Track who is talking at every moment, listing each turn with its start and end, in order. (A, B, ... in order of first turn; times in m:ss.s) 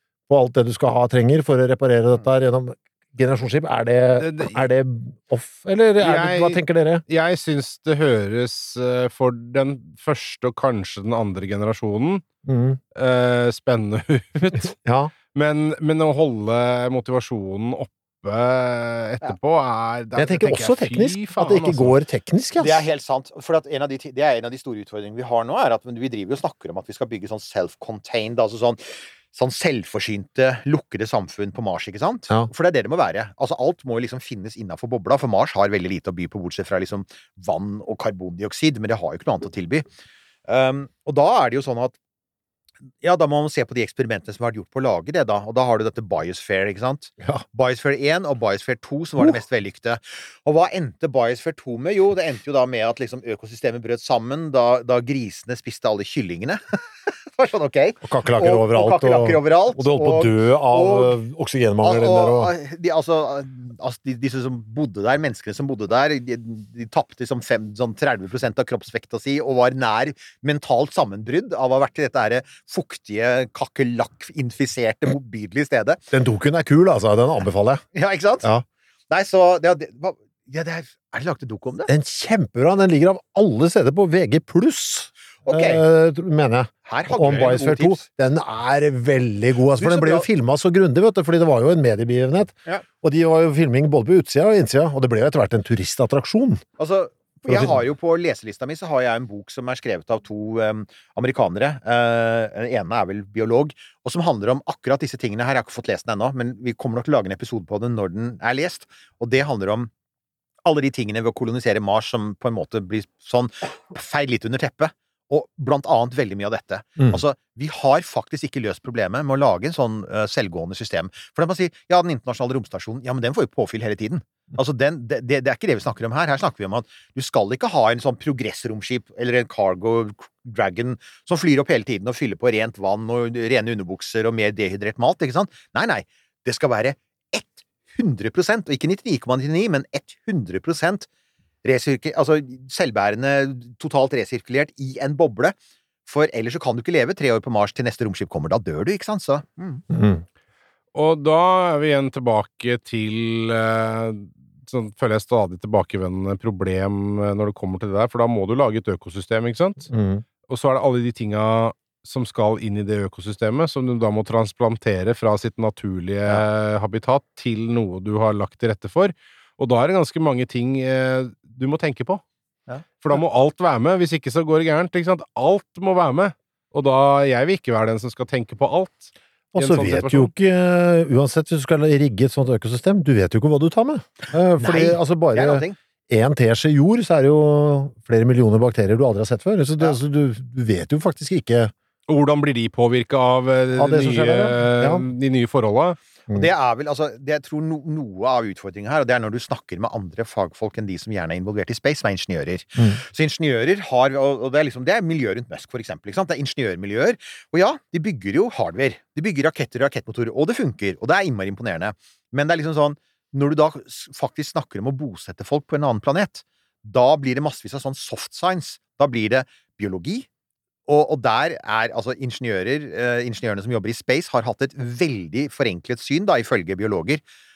0:00.3-0:07.0 A
0:04.2-0:04.6 B
0:06.0-0:12.2 B
0:12.5-0:12.8 A
0:13.0-0:14.8 B
0:14.8-0:15.1 A
0:15.3-0:22.0 B
0:20.2-0:22.9 A
0:22.6-0:39.8 C
0:40.5-0:42.0 C
0:43.0-1:01.2 C
0:58.0-1:02.5 A
1:01.8-1:16.0 C
1:16.1-1:17.8 A
1:17.9-1:18.5 C
1:19.1-1:21.9 C
1:21.9-1:36.6 A
1:25.4-1:25.8 C
1:26.9-1:28.0 C
1:29.8-1:30.3 C
1:36.8-1:49.9 C
1:37.5-1:37.8 A
1:50.6-2:21.1 C
2:21.6-2:29.8 C
2:29.9-2:30.2 A
2:31.0-2:39.9 B
2:39.9-2:40.2 A
2:40.5-2:52.2 B
2:53.0-3:00.3 B
2:59.5-3:11.7 A
3:04.6-3:05.8 C
3:12.1-3:16.0 B
3:13.7-3:15.0 A
3:16.3-3:40.3 C
3:40.9-3:47.2 C